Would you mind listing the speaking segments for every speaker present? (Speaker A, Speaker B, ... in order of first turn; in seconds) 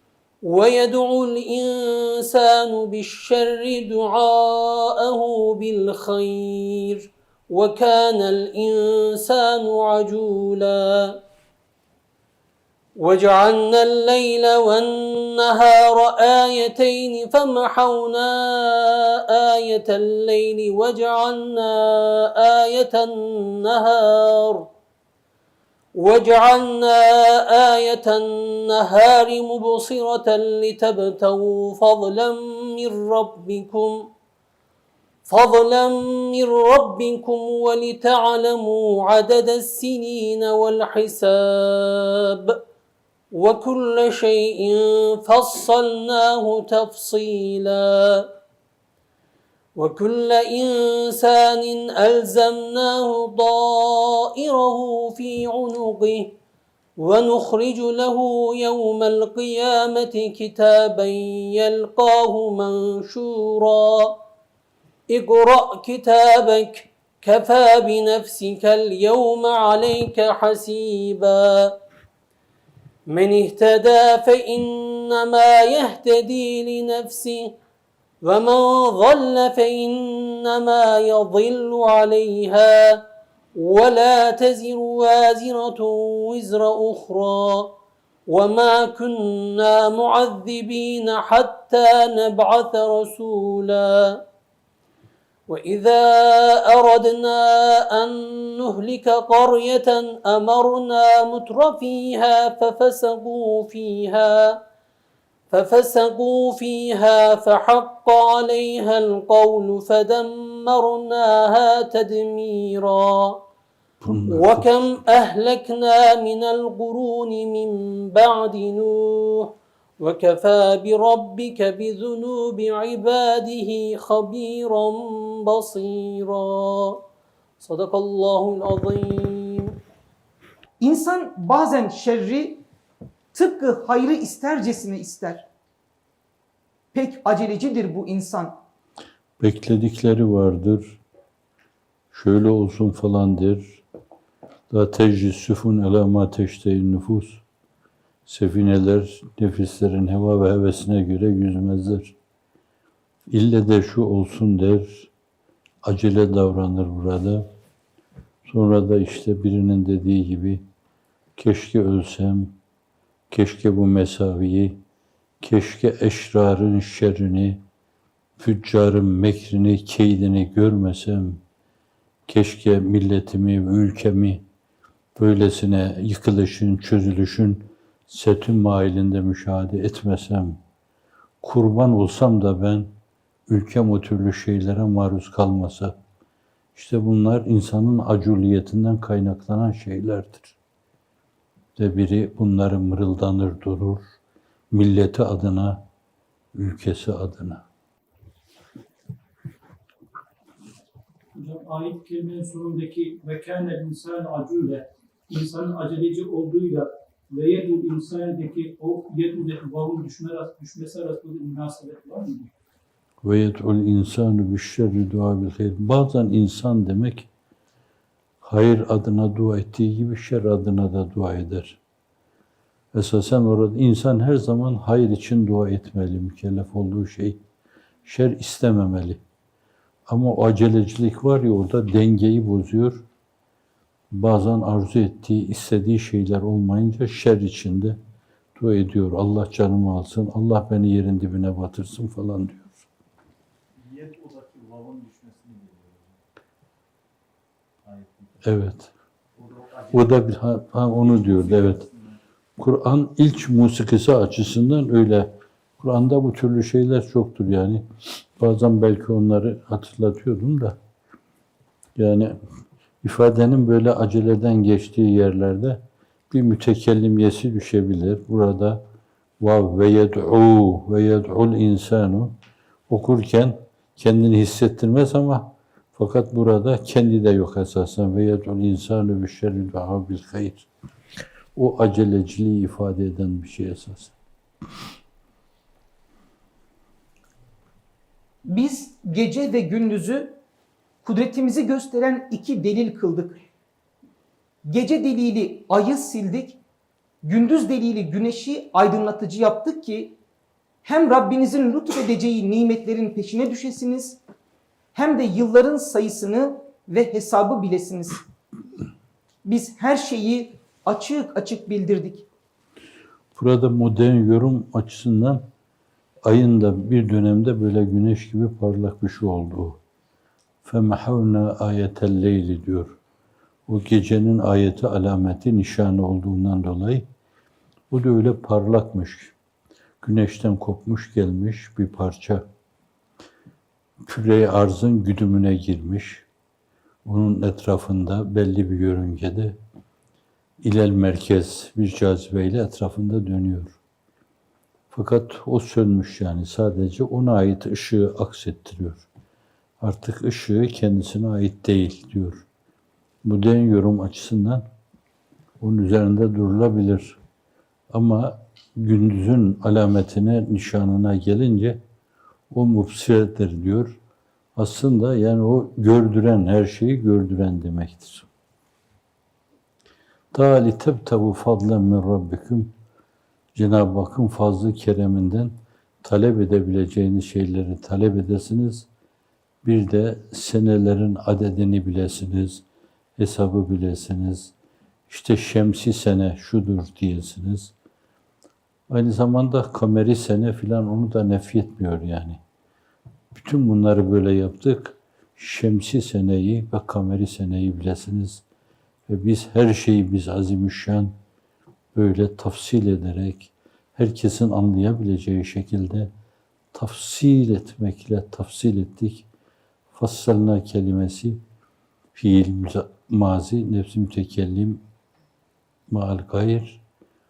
Speaker A: 0.4-11.2, 13.0-24.7, 25.9-34.1, 35.3-42.6, 43.3-48.3, 49.8-56.3, 57.0-64.2, 65.1-71.8, 73.1-77.5, 78.2-83.0, 83.5-87.8, 88.3-94.2, 95.5-104.6, 105.5-113.4, 114.3-127.0, 127.6-129.8
Speaker B: 114.0-114.7, 139.4-141.0, 142.1-143.8, 144.7-147.4, 148.3-152.2, 153.3-155.1, 155.8-157.5, 158.5-160.7, 161.4-162.6, 163.3-164.8, 165.4-167.6, 168.4-171.4, 172.3-174.4, 175.2-180.6, 181.4-182.9, 183.5-185.9, 186.8-190.6, 191.8-194.1, 194.7-195.8, 196.5-197.6, 213.2-217.3, 218.4-221.8, 222.9-227.4, 228.1-229.2, 230.1-233.1, 234.1-238.0, 238.6-242.9, 248.4-248.9, 249.9-251.9, 252.6-260.8, 261.9-262.4, 263.0-268.8, 269.4-272.4, 272.9-280.7, 281.6-284.1, 313.4-315.4, 316.2-319.8, 320.6-323.0, 323.7-327.1, 327.9-329.3, 330.0-332.4, 334.1-336.2, 337.1-339.6, 340.6-343.8, 344.9-349.1, 349.8-352.4, 353.2-354.6, 355.6-357.2, 357.9-361.8, 362.5-364.0, 364.6-368.3, 370.3-372.7, 373.6-378.9, 379.6-382.6, 383.2-384.5, 385.1-387.7, 388.9-392.4, 393.3-398.4, 399.1-401.1, 401.9-406.1, 406.7-409.3, 409.9-411.4, 412.1-414.8, 415.9-416.8
Speaker C: 130.8-132.6, 133.3-135.5, 136.9-138.6, 288.4-290.4, 291.0-293.4, 294.6-296.6, 297.2-300.1, 300.8-304.2, 304.9-308.2, 309.4-312.3
Speaker D: 201.3-212.5
Speaker E: 243.8-246.2, 247.8-248.4, 249.4-250.2, 250.9-252.2